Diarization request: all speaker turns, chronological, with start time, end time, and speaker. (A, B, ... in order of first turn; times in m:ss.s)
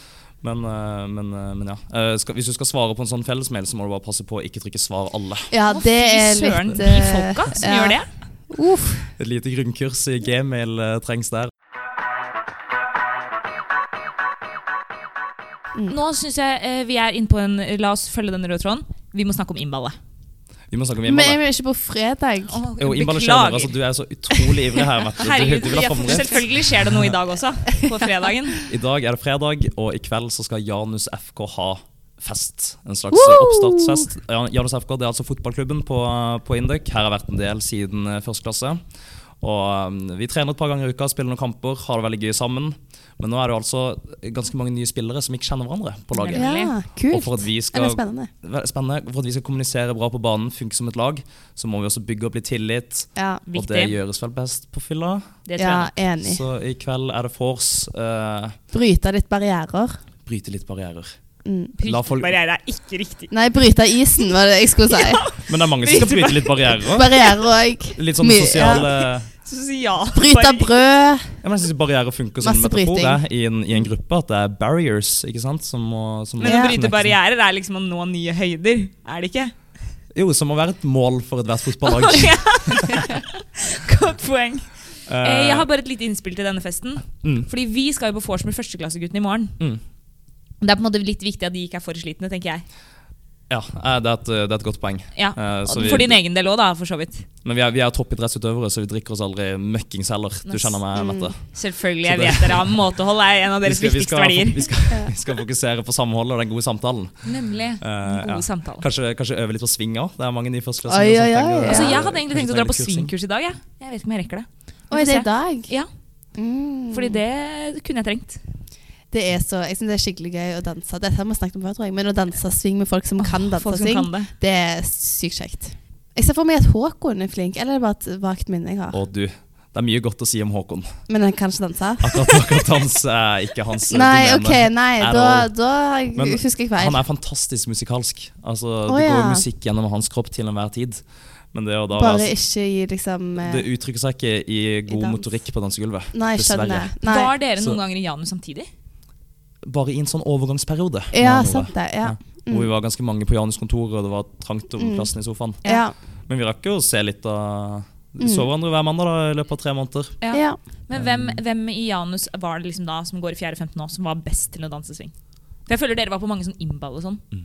0:00.4-0:05.5 A
0:05.5-0:09.1 B
0:05.7-0:08.1 C
0:09.2-0:11.5 A
0:15.8-0:20.0 C
0:20.7-0:21.4 A
0:21.0-0:22.6 B
0:22.5-0:23.7 C
0:22.8-0:27.2 A
0:25.2-0:28.6 C
0:28.7-0:38.8 A
0:33.1-0:34.1 B
0:39.4-0:46.5 A
0:46.1-0:46.7 C
0:46.3-0:48.3 B
0:47.1-0:55.4 A
0:53.2-0:53.4 B
0:53.5-0:53.9 C
0:55.4-0:55.9 C
0:55.6-0:56.4 B
0:56.2-0:58.6 A
0:58.7-1:00.0 B
1:00.2-1:01.1 A
1:01.4-1:01.7 B
1:01.8-1:03.3 C
1:01.8-1:02.4 A
1:03.3-1:05.2 B
1:04.9-1:07.2 C
1:05.4-1:07.1 A
1:06.9-1:08.9 B
1:08.0-1:09.3 A
1:08.8-1:10.7 C
1:10.1-1:11.3 B
1:11.4-1:17.2 A
1:12.4-1:13.2 B
1:16.4-1:19.5 C
1:16.4-1:16.7 B
1:20.1-1:23.1 A
1:21.8-1:29.6 C
1:25.1-1:25.7 A
1:27.2-1:27.5 A
1:30.6-1:32.6 C
1:33.5-1:36.2 A
1:35.2-1:37.2 C
1:37.4-1:41.4 A
1:40.5-1:40.8 C
1:40.9-1:41.3 B
1:41.5-1:44.7 C
1:42.0-1:42.8 A
1:43.6-1:47.3 A
1:47.2-1:48.8 C
1:47.8-1:53.1 A
1:50.9-1:52.0 B
1:51.6-1:55.9 C
1:54.9-1:55.7 B
1:56.4-1:57.2 B
1:56.9-1:58.4 C
1:59.1-2:09.0 B
2:03.2-2:04.3 C
2:08.9-2:10.9 A
2:11.1-2:12.6 B
2:12.0-2:15.5 A
2:13.9-2:17.0 B
2:16.1-2:22.3 A
2:18.9-2:19.4 B
2:21.9-2:23.6 B
2:23.4-2:26.9 A
2:24.9-2:25.2 B
2:26.1-2:27.3 B
2:27.0-2:28.7 C
2:29.6-2:35.6 A
2:31.1-2:32.7 B
2:34.8-2:35.1 B
2:35.6-2:35.9 B
2:36.3-2:40.2 A
2:38.2-2:38.5 B
2:40.2-2:45.1 C
2:40.3-2:40.6 B
2:40.9-2:41.4 A
2:45.7-2:47.2 C